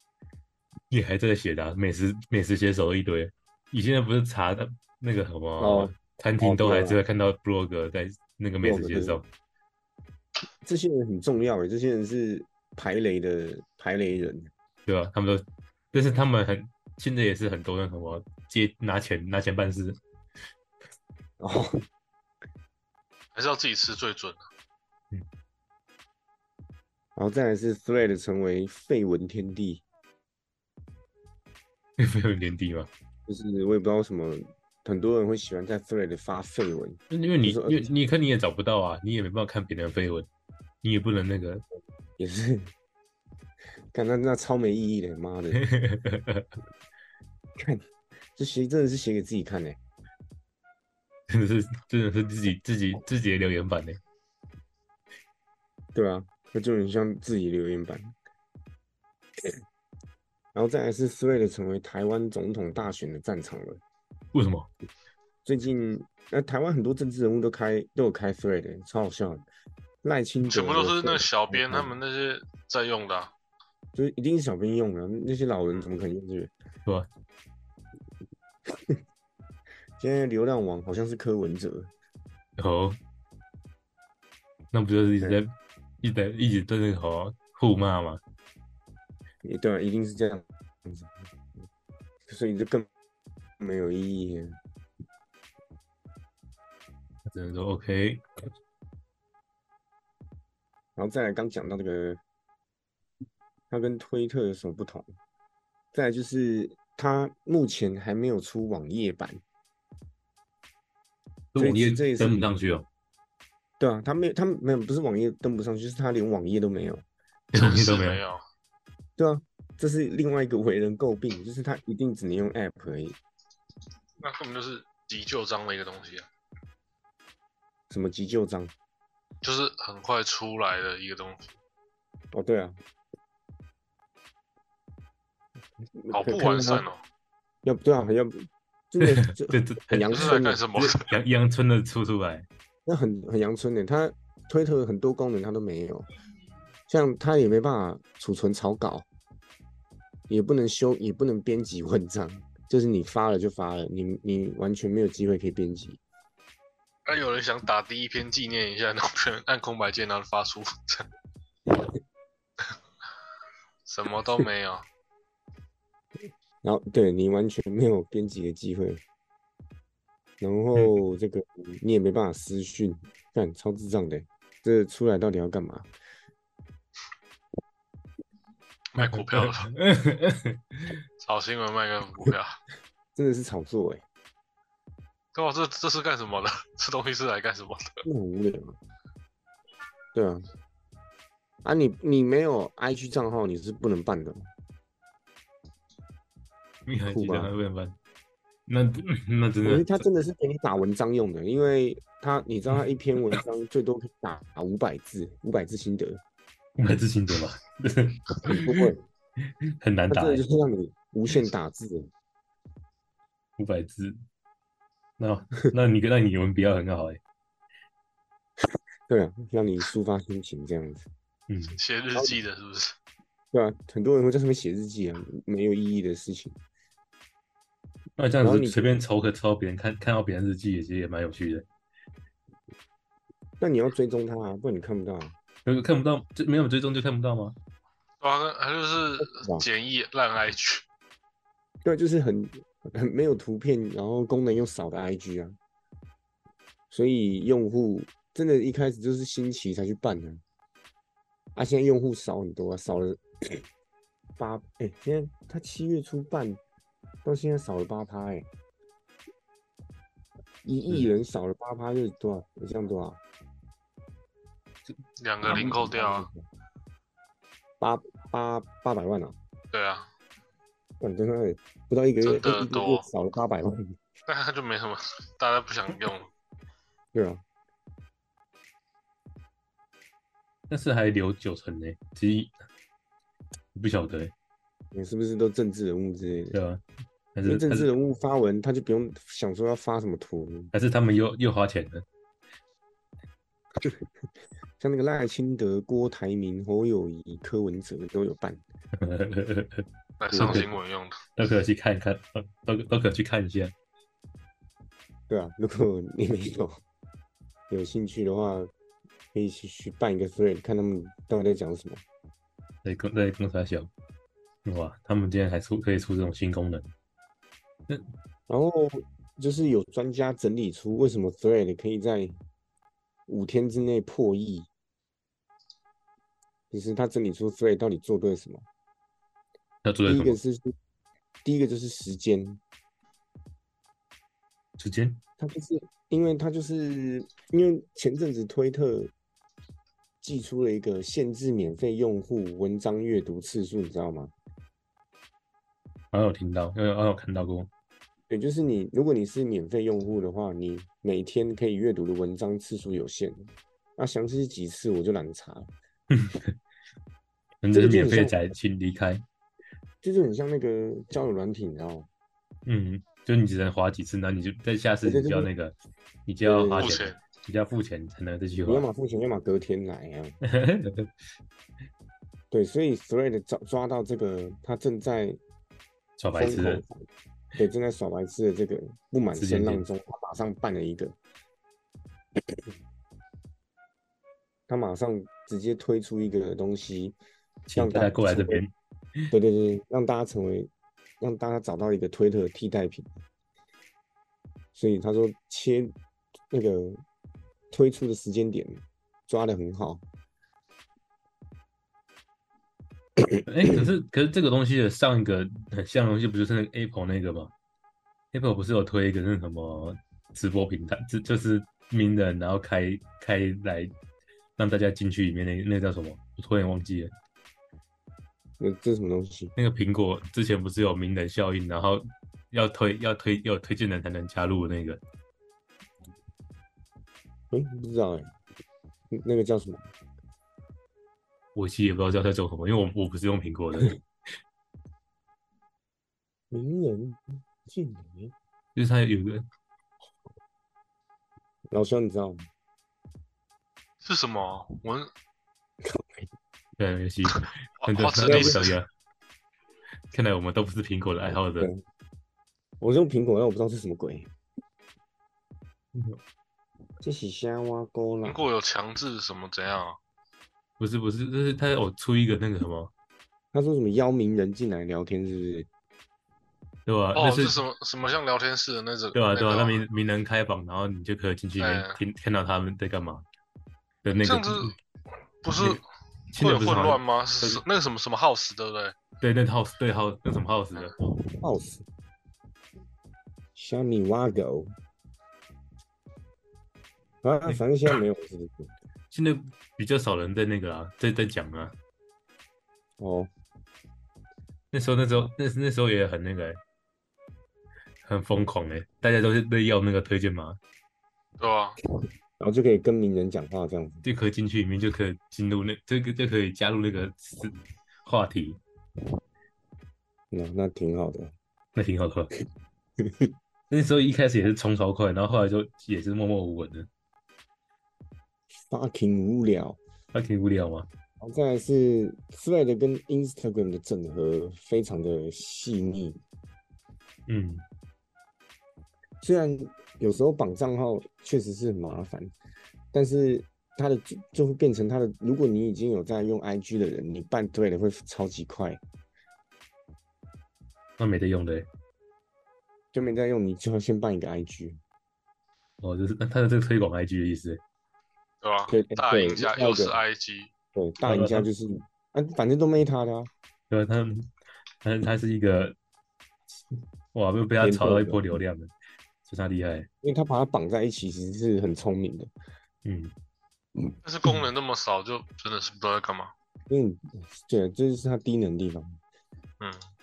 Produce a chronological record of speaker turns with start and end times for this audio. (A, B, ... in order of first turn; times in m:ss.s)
0:00.9-0:09.3 A
0:05.6-0:07.0 B
0:08.6-0:09.2 B
0:10.6-0:14.5 B
0:14.9-0:20.0 A
0:21.4-0:21.8 B
0:23.4-0:24.5 C
0:27.2-0:29.8 B
0:32.0-0:32.9 A
0:33.3-0:37.9 B
0:37.1-0:40.3 A
0:40.8-0:41.6 A
0:42.2-0:42.7 B
0:43.9-0:45.6 B
0:45.6-0:46.5 A
0:47.6-0:47.8 B
0:48.4-0:49.8 B
0:51.3-0:54.0 A
0:56.0-0:58.1 B
1:00.5-1:03.8 B
1:04.3-1:04.7 A
1:05.4-1:09.4 B
1:10.0-1:12.0 B
1:10.4-1:13.3 C
1:14.0-1:16.5 B
1:20.0-1:21.9 B
1:22.6-1:23.0 A
1:24.7-1:28.2 A
1:29.4-1:31.1 B
1:32.3-1:32.9 B
1:33.6-1:34.6 B
1:37.3-1:38.2 A
1:41.0-1:42.2 B
1:43.7-1:45.1 B
1:45.9-1:49.4 B
1:51.5-1:52.9 A
1:51.6-1:52.4 B
1:53.8-1:57.0 B
1:57.5-1:58.2 A
1:57.6-1:58.4 C
1:59.2-2:03.2 B
2:04.2-2:06.3 C
2:07.9-2:08.7 B
2:09.4-2:11.5 C
2:12.3-2:12.8 B
2:16.0-2:16.8 B
2:16.1-2:17.0 C
2:17.6-2:20.6 B
2:19.3-2:22.5 A
2:20.1-2:21.0 C
2:22.9-2:26.1 B
2:26.9-2:29.1 B
2:30.3-2:36.0 B
2:37.1-2:41.1 C
2:43.9-2:44.9 C
2:46.6-2:49.0 B
2:50.4-2:55.9 B
2:58.9-2:59.7 C
2:59.0-3:00.9 A
3:01.2-3:02.6 C
3:03.2-3:04.0 B
3:05.4-3:07.9 C
3:08.0-3:08.8 B
3:10.1-3:10.4 B
3:11.6-3:14.4 B
3:16.9-3:18.0 A
3:17.1-3:17.5 B
3:18.7-3:20.0 A
3:19.6-3:26.2 B
3:26.8-3:28.9 A
3:28.5-3:29.0 B
3:29.6-3:30.4 A
3:30.1-3:32.1 B
3:33.6-3:34.2 A
3:35.2-3:37.2 A
3:39.1-3:41.1 B
3:41.5-3:41.8 A
3:41.7-3:43.0 C
3:43.5-3:46.6 B
3:48.2-3:51.7 A
3:48.4-3:49.0 B
3:53.6-3:55.3 B
3:55.6-3:57.6 A
3:58.2-4:00.8 C
3:59.2-3:59.7 B
4:01.8-4:05.6 B
4:06.9-4:10.4 B
4:11.6-4:13.6 B
4:14.4-4:16.6 B
4:17.2-4:18.5 B
4:20.6-4:23.2 B
4:25.2-4:26.3 C
4:25.4-4:26.4 B
4:27.8-4:29.4 B
4:29.7-4:30.1 C
4:31.0-4:34.0 B
4:32.2-4:33.0 C
4:34.3-4:36.3 C
4:37.1-4:37.4 B
4:40.7-4:42.6 A
4:43.7-4:44.3 A
4:44.9-4:46.6 B
4:46.5-4:46.8 A
4:47.4-4:47.9 A
4:47.4-4:50.7 B
4:50.7-4:52.0 A
4:54.8-4:58.6 B
4:59.0-5:00.7 A
5:00.2-5:01.2 C
5:00.3-5:00.7 B
5:01.4-5:03.7 A
5:05.3-5:06.8 B
5:07.7-5:08.7 B
5:09.3-5:12.0 B
5:12.8-5:13.9 A
5:14.6-5:16.9 A
5:18.5-5:22.4 B
5:23.3-5:24.7 B
5:26.7-5:28.6 B
5:29.8-5:30.4 A
5:30.0-5:30.7 B
5:31.4-5:32.6 B
5:34.8-5:35.2 A
5:35.4-5:39.1 B
5:40.2-5:44.3 B
5:46.1-5:47.7 A
5:48.3-5:55.7 B
5:56.1-5:56.6 A
5:57.6-5:59.2 A
5:57.7-5:58.4 B
6:00.0-6:02.1 B
6:02.7-6:05.8 A
6:05.0-6:05.5 B
6:06.3-6:08.9 A
6:06.4-6:06.9 B
6:06.8-6:07.2 C
6:08.6-6:10.4 B
6:10.5-6:11.1 A
6:12.5-6:15.4 B
6:16.2-6:16.8 A
6:16.4-6:17.0 B
6:17.6-6:21.2 B
6:19.4-6:19.8 A
6:24.7-6:27.2 B
6:27.7-6:28.7 A
6:27.8-6:28.6 B
6:29.3-6:30.7 B
6:31.2-6:33.1 B
6:34.8-6:35.9 B
6:36.5-6:37.0 B
6:37.7-6:40.0 B
6:43.5-6:47.5 A
6:48.3-6:53.9 A
6:54.6-6:57.1 A
6:58.6-6:59.5 B
6:59.6-7:05.0 A
7:07.5-7:08.3 B
7:09.1-7:09.8 B
7:11.6-7:13.9 A
7:16.5-7:18.3 B
7:18.8-7:19.5 A
7:21.7-7:22.5 B
7:24.0-7:25.1 C
7:25.8-7:26.3 B
7:26.8-7:28.9 A
7:27.4-7:28.8 C
7:28.2-7:28.6 B
7:30.1-7:31.7 A
7:32.8-7:34.3 B
7:35.9-7:36.2 A
7:37.0-7:38.4 B
7:38.2-7:40.0 C
7:40.8-7:42.9 A
7:43.5-7:45.7 B
7:46.9-7:47.6 A
7:47.2-7:49.8 C
7:49.1-7:53.2 A
7:51.6-7:52.0 C
7:54.0-7:54.7 A
7:54.2-7:54.8 C
7:55.4-7:55.8 C
7:55.6-7:55.8 A
7:56.3-7:57.6 A
7:56.4-7:59.0 C
7:59.2-8:01.0 A
8:01.4-8:01.8 B
8:03.6-8:04.7 B
8:07.2-8:08.7 B
8:09.1-8:11.8 A
8:13.0-8:13.3 B
8:14.7-8:16.6 A
8:18.0-8:20.6 A
8:21.4-8:21.8 C
8:22.4-8:24.0 B
8:24.0-8:28.6 A
8:30.3-8:31.3 B
8:31.8-8:32.3 A
8:33.0-8:33.3 B
8:33.7-8:36.9 A
8:38.7-8:39.8 B
8:40.1-8:40.9 A
8:41.2-8:46.2 B
8:47.3-8:47.6 A
8:49.2-8:52.3 B
8:52.9-8:58.8 B
9:01.0-9:01.7 A
9:02.9-9:04.8 B
9:05.8-9:07.6 A
9:08.4-9:10.5 C
9:08.7-9:10.0 B
9:10.8-9:13.3 B
9:11.0-9:11.5 A
9:13.7-9:14.3 A
9:14.8-9:15.8 A
9:17.1-9:18.7 A
9:17.6-9:18.2 B
9:19.3-9:19.9 A
9:20.0-9:22.3 B
9:22.8-9:23.1 A
9:24.0-9:26.3 C
9:26.7-9:29.0 B
9:29.6-9:29.8 C